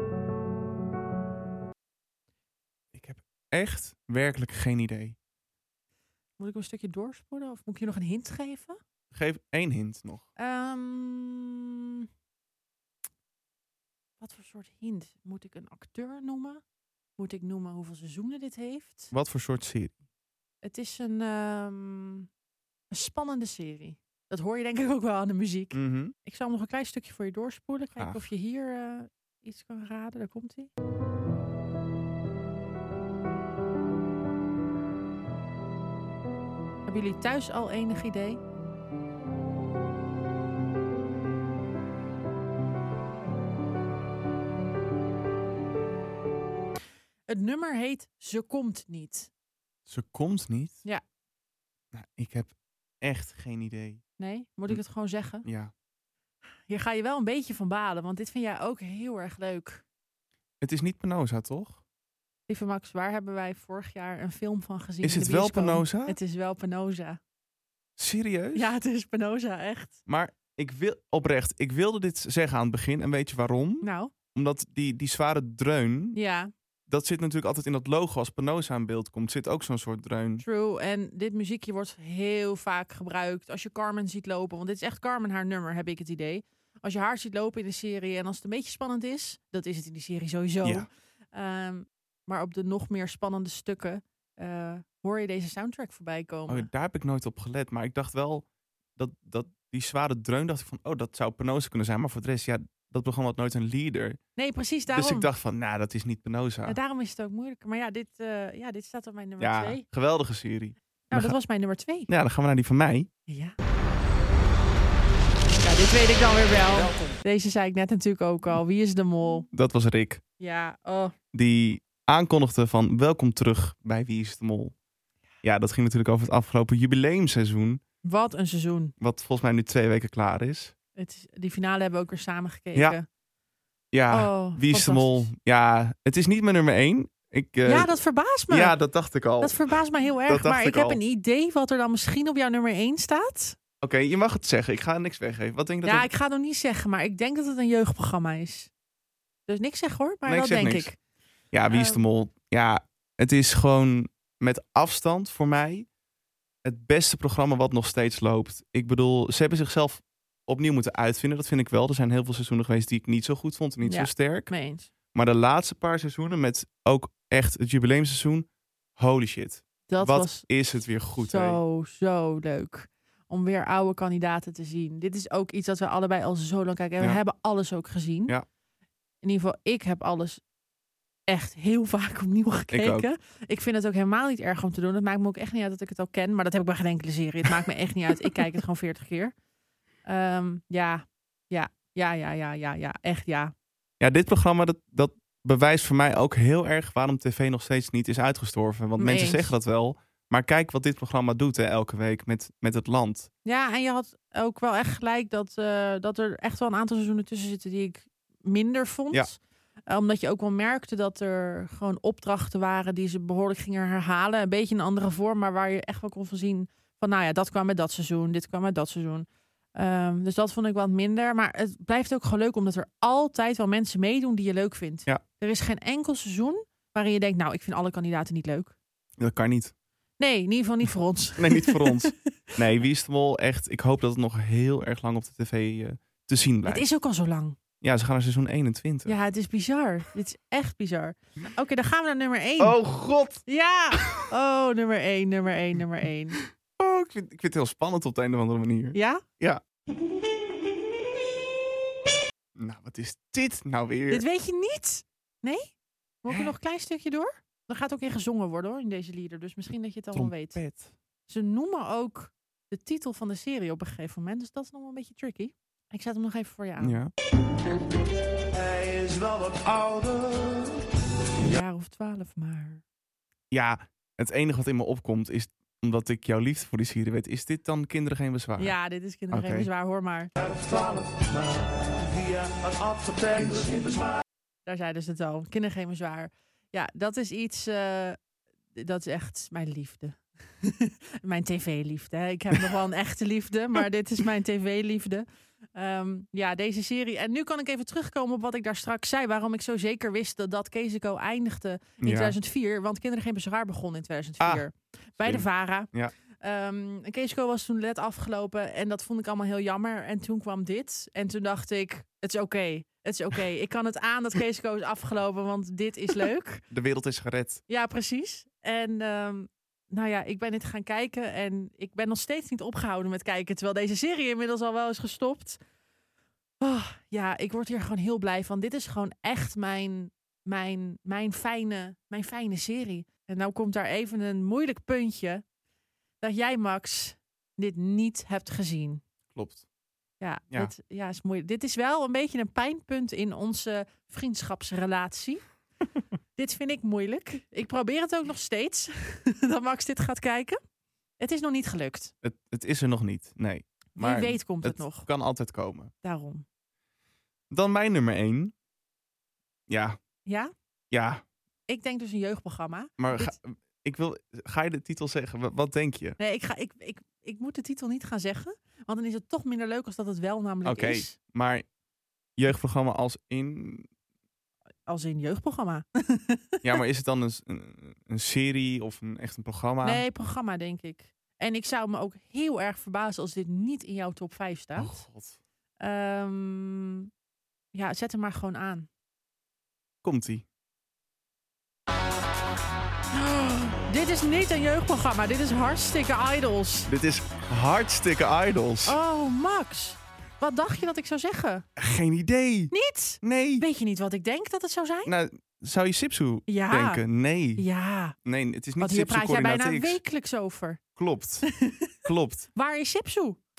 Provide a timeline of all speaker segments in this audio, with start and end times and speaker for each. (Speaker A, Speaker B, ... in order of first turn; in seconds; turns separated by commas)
Speaker A: 2.9-5.2, Speaker B: 6.4-8.8, Speaker A: 9.1-10.3, Speaker B: 10.4-12.1, Speaker B: 14.2-16.6, Speaker B: 17.2-19.1, Speaker A: 19.1-20.0, Speaker B: 20.6-22.3, Speaker B: 22.9-30.7, Speaker A: 25.7-26.1, Speaker A: 28.0-28.3, Speaker B: 36.9-38.4, Speaker B: 47.3-49.3, Speaker A: 49.9-50.8, Speaker A: 51.9-54.0, Speaker B: 54.2-55.5, Speaker A: 55.4-55.7, Speaker B: 56.7-59.8, Speaker A: 60.6-61.8, Speaker B: 62.5-67.2, Speaker A: 65.0-66.2, Speaker A: 68.0-68.7, Speaker B: 68.5-70.0, Speaker A: 70.1-76.2, Speaker B: 73.8-74.1, Speaker B: 76.2-76.5, Speaker A: 76.9-80.4, Speaker B: 80.4-96.7, Speaker A: 96.5-98.5, Speaker A: 99.0-104.2, Speaker B: 104.4-105.3, Speaker A: 104.9-106.8, Speaker B: 106.7-109.8, Speaker A: 109.4-111.4, Speaker B: 111.1-112.1, Speaker A: 112.1-113.1, Speaker B: 113.3-113.6, Speaker B: 115.6-119.5, Speaker A: 119.5-120.2, Speaker B: 120.4-121.1, Speaker A: 121.3-124.7, Speaker A: 125.4-127.8, Speaker B: 128.0-128.9, Speaker A: 129.0-130.7, Speaker B: 131.0-133.1, Speaker A: 133.9-137.9, Speaker B: 134.1-135.3, Speaker B: 137.7-138.8, Speaker A: 138.5-139.7, Speaker B: 139.4-143.6, Speaker A: 140.3-141.0, Speaker A: 143.8-146.1, Speaker B: 145.8-148.7, Speaker B: 149.5-151.0, Speaker A: 150.3-150.9, Speaker A: 151.5-155.9, Speaker B: 151.7-152.0, Speaker A: 156.6-164.5, Speaker B: 163.8-164.9, Speaker A: 165.1-171.6, Speaker B: 169.9-170.5, Speaker B: 171.2-178.3, Speaker B: 179.2-180.4, Speaker B: 181.3-189.3, Speaker A: 182.7-183.1, Speaker B: 190.1-193.5, Speaker A: 194.0-203.3, Speaker B: 199.0-199.5, Speaker B: 203.4-228.8, Speaker A: 229.2-229.7, Speaker B: 230.2-232.1, Speaker A: 231.4-236.8, Speaker B: 236.7-237.6, Speaker A: 237.8-239.2, Speaker B: 239.1-242.8, Speaker A: 242.6-243.4, Speaker B: 243.4-246.4, Speaker A: 246.8-249.6, Speaker B: 248.9-249.2, Speaker A: 252.6-254.2, Speaker B: 254.1-255.7, Speaker B: 256.2-260.6, Speaker A: 260.1-260.9, Speaker B: 261.3-267.0, Speaker A: 266.8-267.1, Speaker C: 268.9-270.0, Speaker B: 271.4-272.8, Speaker A: 273.5-278.7, Speaker B: 278.6-280.3, Speaker A: 279.3-279.7, Speaker C: 283.0-284.0, Speaker B: 284.7-288.2, Speaker B: 288.8-305.9, Speaker A: 302.0-302.4, Speaker A: 304.4-304.6, Speaker A: 305.2-306.1, Speaker B: 306.4-316.6, Speaker A: 316.7-317.6, Speaker B: 317.7-325.6, Speaker B: 326.6-335.4, Speaker B: 336.2-339.0, Speaker A: 339.3-339.6, Speaker B: 340.2-345.4, Speaker B: 346.4-350.6, Speaker B: 351.2-352.1, Speaker A: 352.2-355.9, Speaker B: 354.0-355.1, Speaker B: 356.0-356.4, Speaker A: 357.5-358.5, Speaker A: 359.7-360.0, Speaker B: 360.3-360.5, Speaker A: 360.9-361.2, Speaker B: 361.7-363.4, Speaker A: 363.0-366.2, Speaker B: 366.2-371.1, Speaker A: 370.6-371.7, Speaker A: 372.4-373.9, Speaker B: 374.9-376.6, Speaker A: 376.6-380.0, Speaker B: 379.8-385.0, Speaker A: 384.8-385.4, Speaker B: 385.8-387.1, Speaker B: 387.7-388.9, Speaker A: 390.0-390.4, Speaker B: 393.1-396.9, Speaker A: 396.9-399.0, Speaker B: 398.9-401.6, Speaker A: 401.8-403.7, Speaker B: 402.7-405.1, Speaker A: 405.1-407.6, Speaker B: 406.5-407.0, Speaker B: 407.6-408.2, Speaker A: 408.2-410.0, Speaker B: 408.8-410.8, Speaker A: 411.0-411.5, Speaker B: 411.4-411.9, Speaker A: 412.1-412.5, Speaker B: 412.6-413.4